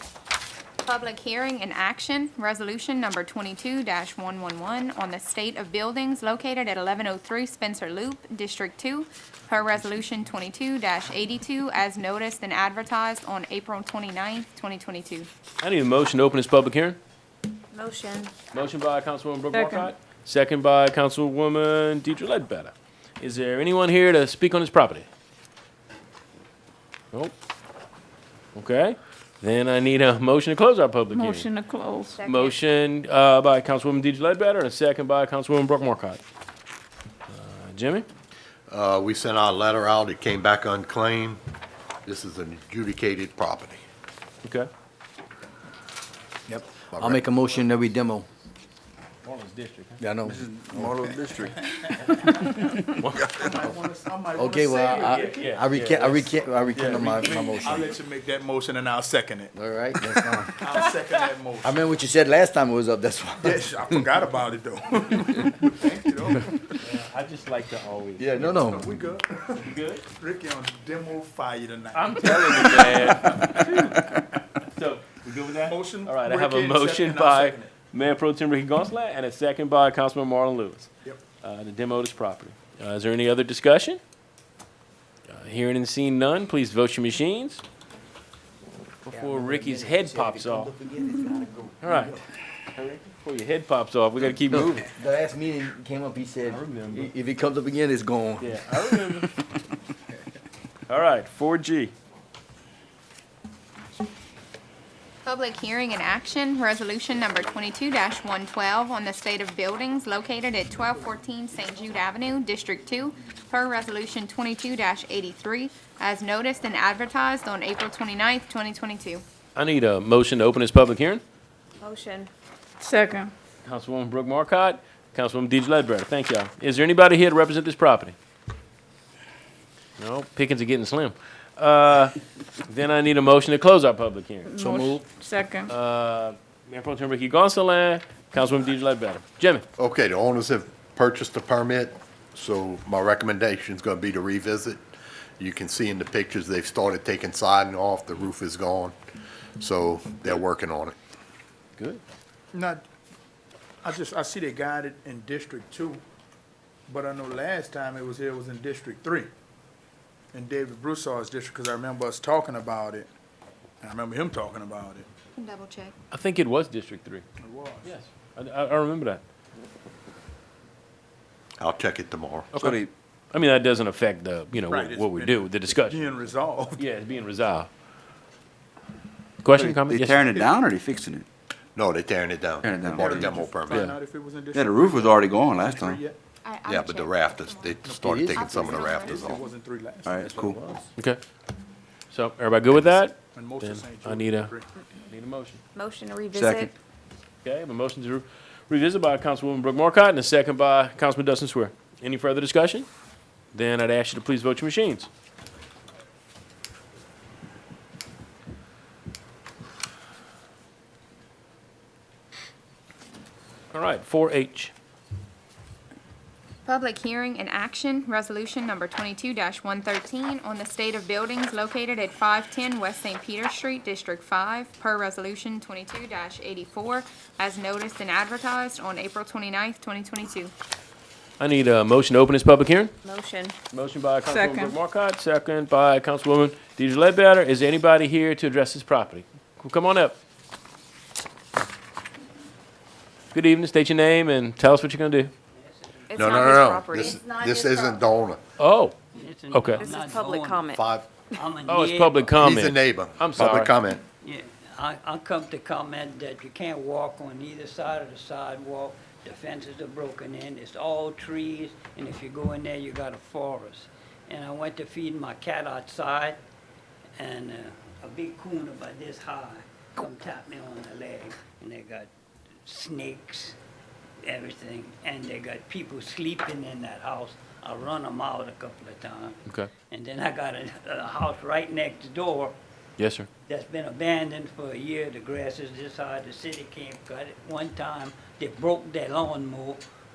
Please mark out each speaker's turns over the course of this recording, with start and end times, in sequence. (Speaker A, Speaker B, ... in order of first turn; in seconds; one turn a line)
Speaker A: 0.8-15.3
Speaker B: 15.6-17.0
Speaker C: 17.7-18.3
Speaker B: 18.5-25.1
Speaker D: 19.5-19.9
Speaker B: 28.6-31.5
Speaker D: 31.1-32.2
Speaker C: 32.2-32.6
Speaker B: 32.2-36.2
Speaker B: 37.3-38.1
Speaker E: 38.7-41.4
Speaker E: 42.1-43.8
Speaker B: 44.4-44.7
Speaker F: 46.5-48.3
Speaker E: 46.9-47.2
Speaker B: 49.2-50.0
Speaker F: 50.0-51.0
Speaker G: 50.2-51.9
Speaker H: 50.6-51.5
Speaker B: 52.0-53.3
Speaker G: 53.0-55.5
Speaker F: 54.4-57.9
Speaker B: 54.8-57.9
Speaker G: 57.6-59.5
Speaker F: 59.5-60.7
Speaker G: 60.5-61.9
Speaker F: 61.6-64.1
Speaker G: 63.4-66.8
Speaker B: 66.8-68.3
Speaker F: 68.2-69.0
Speaker G: 68.3-73.7
Speaker B: 69.6-70.0
Speaker B: 71.9-80.9
Speaker G: 75.7-77.7
Speaker B: 81.4-84.0
Speaker B: 85.3-87.6
Speaker B: 89.0-90.7
Speaker F: 89.1-92.3
Speaker B: 91.8-92.2
Speaker B: 92.8-94.9
Speaker F: 94.5-98.5
Speaker B: 96.5-97.1
Speaker B: 98.4-99.3
Speaker B: 100.9-101.9
Speaker A: 105.2-119.2
Speaker B: 119.5-121.2
Speaker C: 121.8-122.3
Speaker D: 122.8-123.3
Speaker B: 123.7-128.2
Speaker B: 130.0-132.2
Speaker B: 132.7-134.5
Speaker D: 134.5-135.7
Speaker F: 134.6-135.2
Speaker B: 135.7-139.7
Speaker E: 139.8-144.9
Speaker E: 145.4-148.9
Speaker E: 149.6-150.9
Speaker G: 152.5-152.8
Speaker G: 153.8-156.0
Speaker G: 156.9-159.3
Speaker G: 160.3-163.1
Speaker G: 163.8-165.1
Speaker A: 165.3-165.9
Speaker B: 166.1-167.2
Speaker G: 167.4-167.9
Speaker B: 167.8-169.2
Speaker E: 171.6-172.6
Speaker B: 172.6-172.8
Speaker H: 172.6-172.9
Speaker B: 173.3-176.1
Speaker G: 174.7-176.8
Speaker B: 176.8-177.7
Speaker B: 179.4-180.4
Speaker H: 179.6-181.3
Speaker E: 181.8-183.9
Speaker H: 182.6-183.3
Speaker G: 182.9-186.2
Speaker B: 183.7-183.9
Speaker H: 184.5-186.0
Speaker A: 186.4-187.8
Speaker E: 186.7-189.4
Speaker G: 187.8-190.5
Speaker F: 187.9-188.6
Speaker A: 188.3-189.4
Speaker H: 190.1-190.6
Speaker F: 190.3-190.8
Speaker B: 192.1-194.5
Speaker G: 193.3-194.7
Speaker B: 195.1-195.6
Speaker C: 195.8-196.7
Speaker H: 196.4-196.7
Speaker B: 197.4-202.9
Speaker B: 203.5-205.1
Speaker B: 213.7-214.7
Speaker A: 216.7-230.5
Speaker B: 231.4-232.9
Speaker C: 233.0-233.6
Speaker B: 233.7-240.2
Speaker D: 234.3-234.8
Speaker B: 243.3-245.3
Speaker I: 245.6-246.7
Speaker C: 246.1-247.6
Speaker E: 246.1-248.4
Speaker B: 248.6-249.0
Speaker I: 249.2-250.7
Speaker B: 249.5-249.9
Speaker C: 249.8-250.8
Speaker E: 250.7-251.1
Speaker I: 251.3-252.5
Speaker B: 251.7-253.7
Speaker E: 252.4-254.0
Speaker I: 254.2-266.4
Speaker I: 267.2-272.1
Speaker I: 272.7-273.6
Speaker I: 274.2-282.6
Speaker B: 279.5-279.7
Speaker B: 283.0-283.3
Speaker I: 283.5-289.8